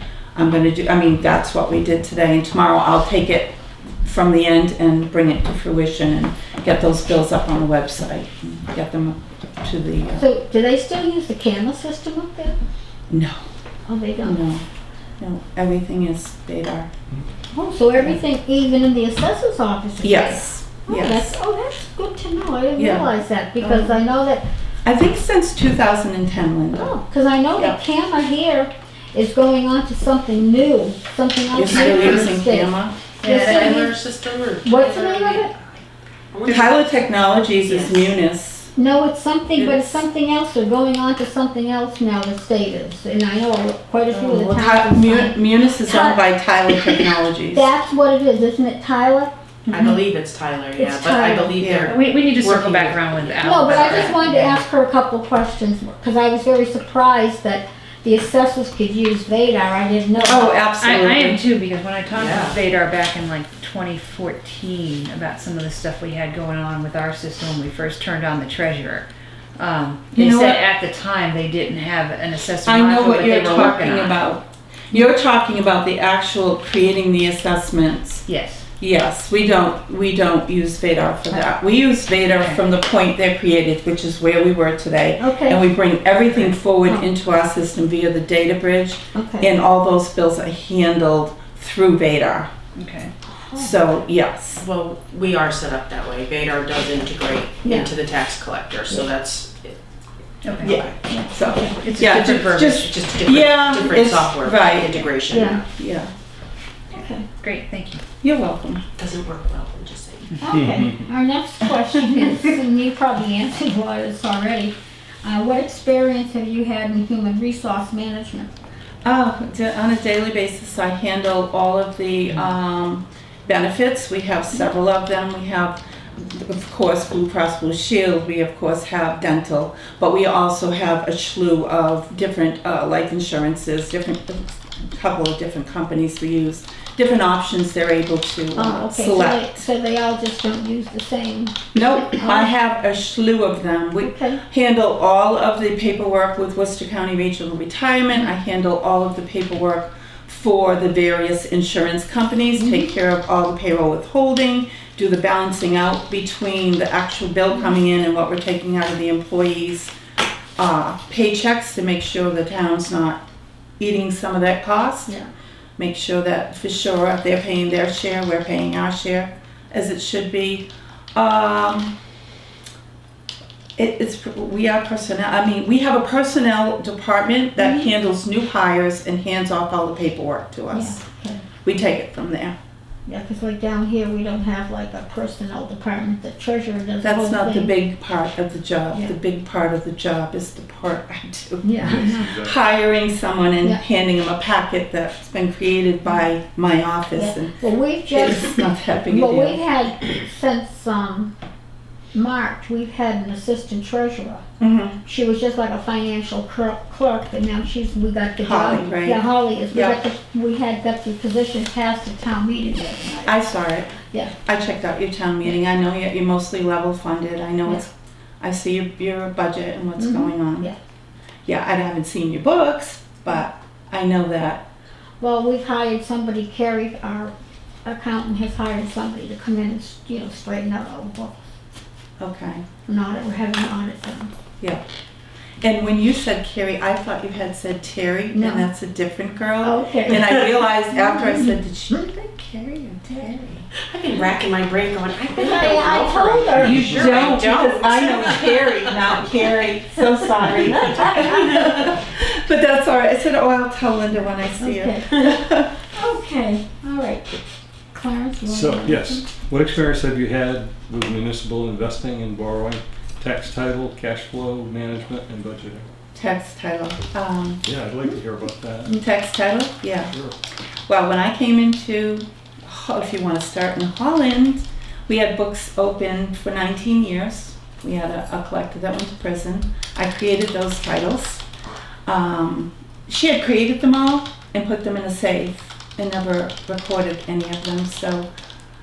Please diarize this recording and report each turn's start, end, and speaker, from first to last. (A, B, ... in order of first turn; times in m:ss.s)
0:00.3-0:10.3 A
0:10.2-0:12.6 B
0:13.1-0:13.4 A
0:13.9-0:14.4 B
0:14.2-0:14.6 A
0:15.2-0:16.9 A
0:17.5-0:24.4 B
0:20.0-0:21.4 A
0:22.8-0:24.0 A
0:24.8-0:27.0 A
0:26.7-0:34.0 B
0:31.5-0:33.0 A
0:31.8-0:32.3 C
0:33.2-0:33.5 D
0:33.3-0:35.8 C
0:34.6-0:35.5 B
0:36.3-0:38.1 C
0:36.4-0:38.7 A
0:38.7-0:46.2 B
0:39.5-0:40.0 A
0:44.1-0:47.7 A
0:47.5-0:49.9 B
0:49.7-0:54.0 C
0:50.7-0:51.6 B
0:51.6-0:51.9 A
0:51.8-0:54.6 D
0:53.4-1:00.7 B
1:00.2-1:01.4 A
1:00.8-1:14.2 D
1:02.1-1:02.6 C
1:10.1-1:10.6 A
1:12.6-1:18.2 A
1:18.3-1:18.6 D
1:18.8-1:32.5 A
1:22.3-1:22.6 D
1:25.2-1:25.6 B
1:29.1-1:29.5 B
1:32.8-1:33.1 D
1:33.5-1:34.6 A
1:34.5-1:39.8 C
1:37.6-1:37.9 B
1:40.4-1:40.8 D
1:40.4-1:41.0 C
1:40.7-1:45.1 A
1:41.3-1:41.8 B
1:41.8-1:42.8 D
1:42.1-1:45.6 C
1:45.3-1:45.6 B
1:45.7-1:46.1 A
1:46.9-1:47.3 B
1:47.4-1:48.0 D
1:48.2-1:48.8 A
1:49.0-1:50.3 C
1:50.4-1:58.5 B
1:50.5-1:50.9 E
1:51.9-1:52.3 A
1:59.0-2:19.7 A
2:18.6-2:22.5 B
2:21.7-2:39.9 A
2:24.0-2:24.4 B
2:32.6-2:32.9 B
2:40.6-2:43.2 A
2:43.8-2:45.1 A
2:45.8-2:52.0 A
2:53.8-3:01.0 A
2:57.6-2:57.9 B
3:00.7-3:01.4 B
3:01.6-3:02.5 A
3:03.1-3:07.7 B
3:07.0-3:19.6 A
3:11.6-3:12.3 B
3:11.8-3:12.6 E
3:17.1-3:21.3 B
3:22.1-3:24.4 B
3:24.6-3:25.0 A
3:25.0-3:33.4 B
3:28.4-3:30.0 A
3:33.2-3:37.9 A
3:34.0-3:34.3 B
3:38.4-3:40.7 A
3:40.0-3:40.8 B
3:41.4-3:44.6 A
3:45.2-3:47.3 B
3:47.8-3:51.4 B
3:52.2-3:52.6 A
3:52.8-3:54.3 B
3:55.6-4:03.7 A
3:58.3-3:58.7 B
3:59.6-4:00.2 B
4:00.9-4:01.9 B
4:03.8-4:09.7 C
4:05.3-4:07.0 B
4:06.7-4:15.8 A
4:06.7-4:07.4 D
4:11.0-4:11.2 B
4:11.2-4:11.7 C
4:14.6-4:15.1 B
4:15.9-4:17.4 B
4:17.9-4:19.3 B
4:18.4-4:25.8 E
4:26.1-4:27.6 A
4:27.6-4:28.9 E
4:28.8-4:30.1 A
4:30.9-4:41.4 A
4:42.1-4:48.3 A